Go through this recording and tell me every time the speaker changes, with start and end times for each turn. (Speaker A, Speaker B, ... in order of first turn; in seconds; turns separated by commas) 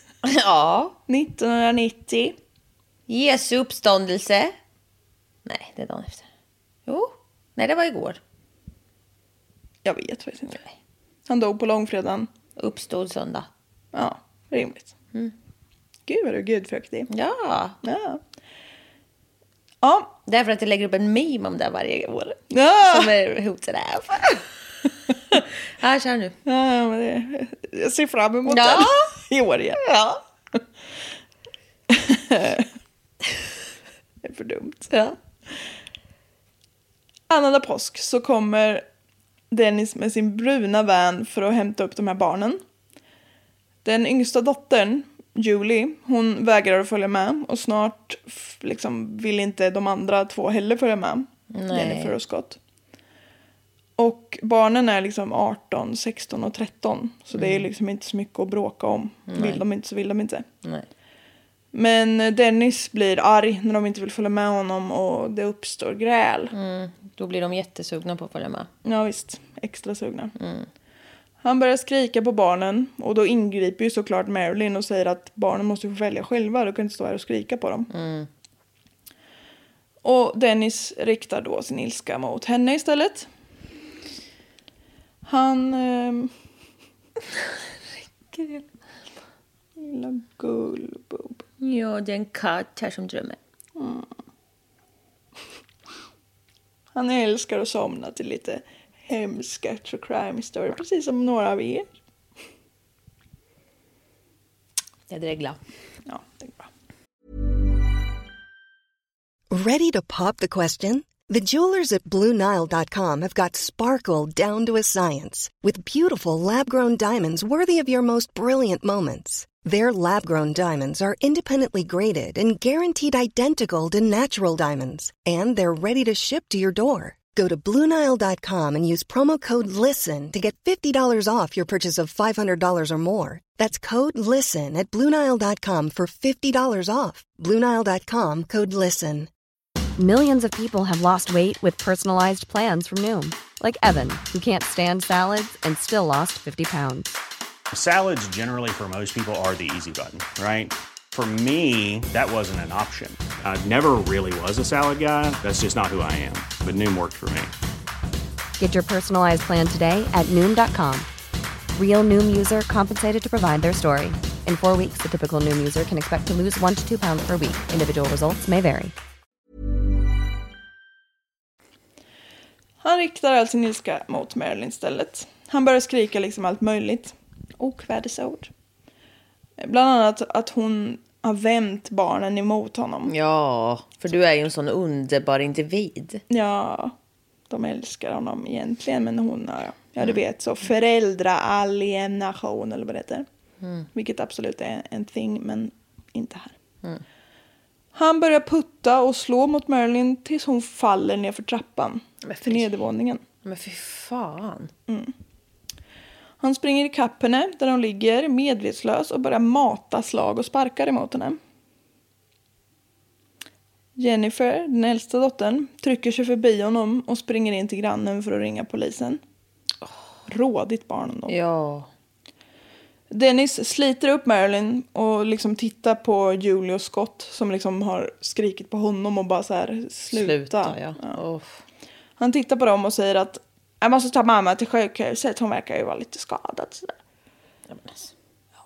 Speaker A: 0.2-0.9, Speaker B: 1.1-2.4, Speaker A: 3.1-4.6, Speaker A: 5.5-6.3, Speaker A: 6.9-8.2, Speaker B: 9.8-10.6, Speaker B: 11.3-12.3, Speaker A: 12.6-13.5, Speaker B: 13.9-14.9, Speaker B: 16.1-17.1, Speaker A: 17.1-17.8, Speaker B: 17.8-18.2, Speaker B: 19.8-20.1, Speaker A: 20.3-24.4, Speaker B: 22.5-23.1, Speaker A: 25.3-26.4, Speaker B: 26.4-29.8, Speaker A: 28.5-29.0, Speaker A: 29.8-30.2, Speaker B: 31.9-32.7, Speaker B: 34.2-34.9, Speaker A: 34.9-35.2, Speaker B: 37.3-38.9, Speaker B: 39.5-42.6, Speaker B: 43.9-52.6, Speaker A: 51.5-52.1, Speaker B: 54.0-60.5, Speaker A: 57.4-57.7, Speaker A: 59.3-59.6, Speaker B: 61.7-66.5, Speaker A: 66.5-68.7, Speaker B: 68.8-70.3, Speaker A: 70.4-70.7, Speaker B: 71.4-77.9, Speaker A: 77.9-78.3, Speaker B: 80.0-83.3, Speaker B: 85.2-86.3, Speaker A: 88.3-88.7, Speaker B: 89.8-91.4, Speaker A: 91.6-93.4, Speaker B: 93.8-94.1, Speaker B: 97.0-101.9, Speaker A: 105.1-105.6, Speaker B: 106.1-106.7, Speaker C: 109.5-139.3, Speaker D: 140.0-147.2, Speaker E: 147.7-157.5, Speaker D: 158.6-161.1, Speaker D: 161.7-168.9, Speaker B: 172.8-178.5, Speaker B: 179.6-183.1, Speaker A: 183.1-186.2, Speaker B: 186.3-186.9, Speaker B: 187.5-193.3, Speaker A: 193.6-193.9, Speaker B: 193.9-196.6, Speaker B: 197.9-203.2, Speaker A: 202.2-202.7, Speaker A: 203.4-204.7, Speaker B: 204.9-205.1, Speaker B: 206.4-211.4, Speaker B: 214.0-219.2, Speaker B: 220.3-221.4, Speaker A: 221.3-221.9, Speaker B: 223.1-231.2, Speaker A: 230.1-231.6, Speaker B: 232.2-236.9, Speaker A: 237.7-238.1